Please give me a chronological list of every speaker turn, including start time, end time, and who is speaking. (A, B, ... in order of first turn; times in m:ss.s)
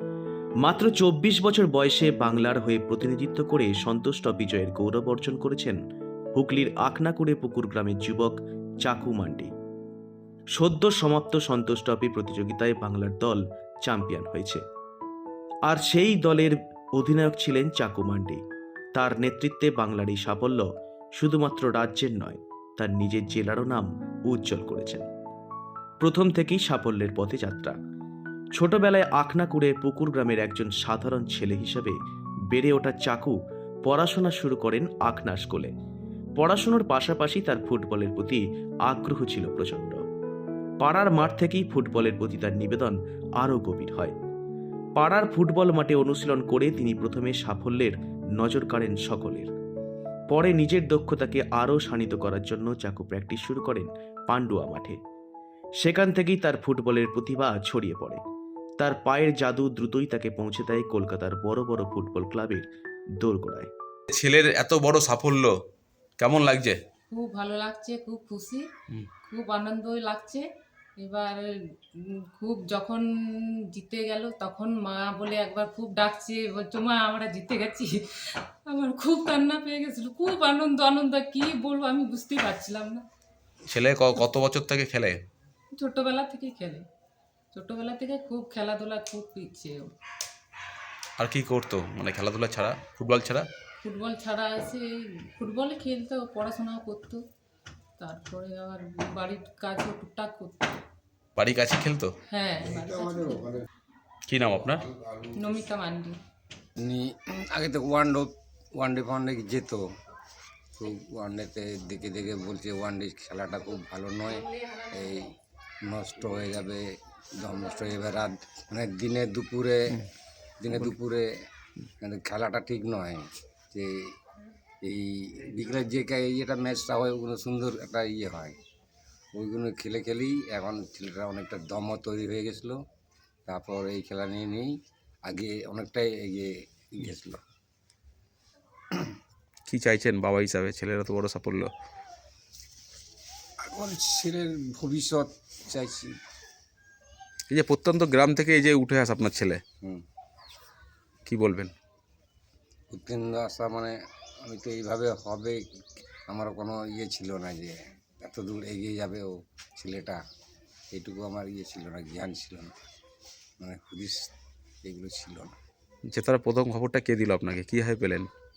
0:00.6-0:05.8 A
0:06.3-0:09.5 A
0:10.6-0:14.6 A
0:15.7-0:18.4 A
0:19.0-0:25.1 A
0:26.0-0:27.8 A
0:28.6-0:32.0 A
0:32.5-0:35.7 A
0:36.4-0:40.0 A
0:40.8-0:44.1 A
0:45.0-0:49.5 A
0:50.3-0:55.0 A
0:55.8-0:58.2 A
0:58.8-1:02.7 A
1:03.2-1:03.7 A
1:04.1-1:05.5 B
1:06.2-1:06.8 B
1:07.1-1:08.7 C
1:09.2-1:10.4 C
1:11.0-1:23.0 C
1:23.7-1:25.2 B
1:25.7-1:26.8 C
1:27.5-1:29.9 C
1:31.2-1:33.5 B
1:33.8-1:37.2 C
1:38.0-1:40.8 C
1:41.4-1:42.1 B
1:42.3-1:43.6 C
1:44.3-1:44.8 B
1:45.3-1:46.2 C
1:46.8-1:49.8 D
1:50.8-1:56.8 D
1:57.4-2:00.0 D
2:00.6-2:01.3 D
2:02.0-2:04.1 D
2:04.8-2:08.6 D
2:09.3-2:12.8 D
2:13.5-2:14.8 D
2:15.3-2:17.4 D
2:19.7-2:21.7 B
2:23.6-2:26.2 D
2:27.5-2:29.6 B
2:31.3-2:31.7 B
2:32.9-2:40.2 D
2:40.9-2:42.7 D
2:43.6-2:44.3 D
2:44.8-2:45.6 D
2:46.1-2:48.3 B